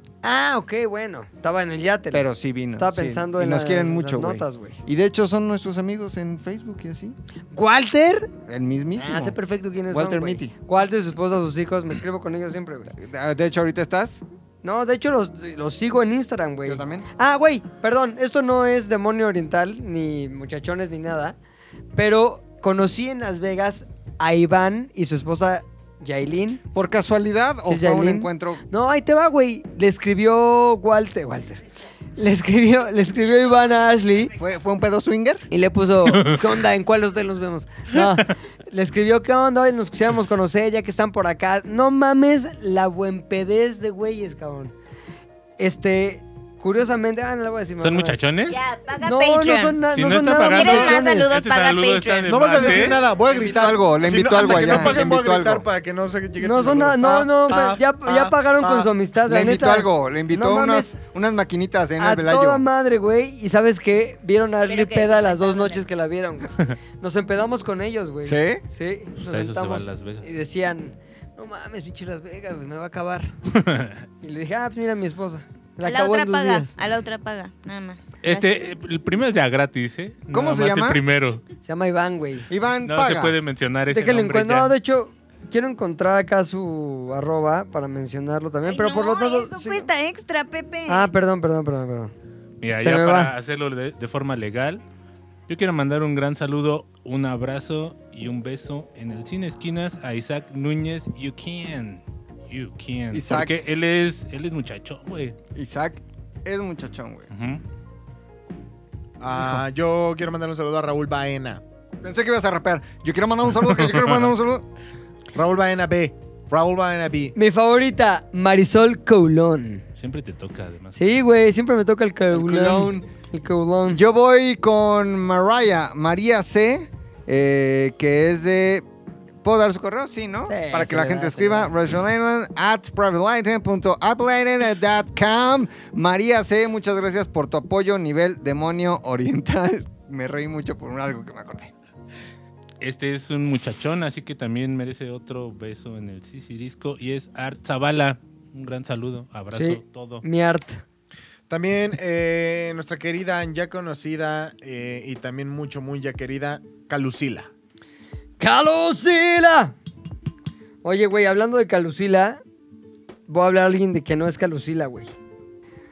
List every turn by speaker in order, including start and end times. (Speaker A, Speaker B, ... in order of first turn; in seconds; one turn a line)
Speaker A: 0.2-4.8
Speaker B: 2.1-7.2
Speaker A: 7.5-8.3
Speaker B: 8.4-9.4
Speaker A: 9.0-12.9
Speaker B: 9.9-10.5
Speaker B: 12.9-14.2
Speaker A: 14.6-21.4
Speaker B: 16.6-17.1
Speaker A: 21.9-26.6
Speaker B: 26.7-28.6
Speaker A: 27.6-31.6
Speaker A: 32.1-34.3
Speaker B: 34.3-35.5
Speaker A: 35.5-44.7
Speaker C: 36.1-36.4
Speaker A: 45.6-48.2
Speaker C: 47.8-48.7
Speaker D: 48.5-52.8
Speaker A: 49.0-51.3
Speaker C: 49.9-53.0
Speaker E: 52.3-58.9
Speaker B: 53.3-55.6
Speaker A: 56.4-61.0
Speaker B: 59.2-62.6
Speaker A: 62.0-73.3
Speaker D: 64.6-65.8
Speaker B: 68.2-68.6
Speaker C: 69.2-70.3
Speaker C: 73.5-74.0
Speaker A: 74.2-76.7
Speaker D: 75.8-78.7
Speaker C: 78.2-81.4
Speaker B: 80.3-81.0
Speaker A: 81.6-82.5
Speaker B: 82.5-83.4
Speaker C: 82.8-84.7
Speaker A: 83.9-89.9
Speaker D: 88.7-91.1
Speaker A: 90.9-92.1
Speaker C: 92.6-94.8
Speaker A: 92.8-93.3
Speaker C: 95.5-105.3
Speaker B: 103.1-103.6
Speaker B: 105.5-107.3
Speaker C: 107.3-107.6
Speaker E: 109.2-111.6
Speaker B: 109.3-109.6
Speaker B: 112.0-114.6
Speaker C: 113.9-114.2
Speaker E: 115.3-117.3
Speaker A: 117.3-119.8
Speaker C: 120.0-121.0
Speaker A: 120.9-124.0
Speaker B: 122.3-123.1
Speaker B: 123.9-128.8
Speaker B: 129.4-141.7
Speaker A: 130.5-131.7
Speaker C: 142.8-150.2
Speaker A: 149.5-150.8
Speaker E: 151.5-157.5
Speaker A: 158.4-159.7
Speaker A: 160.8-162.4
Speaker A: 163.3-165.1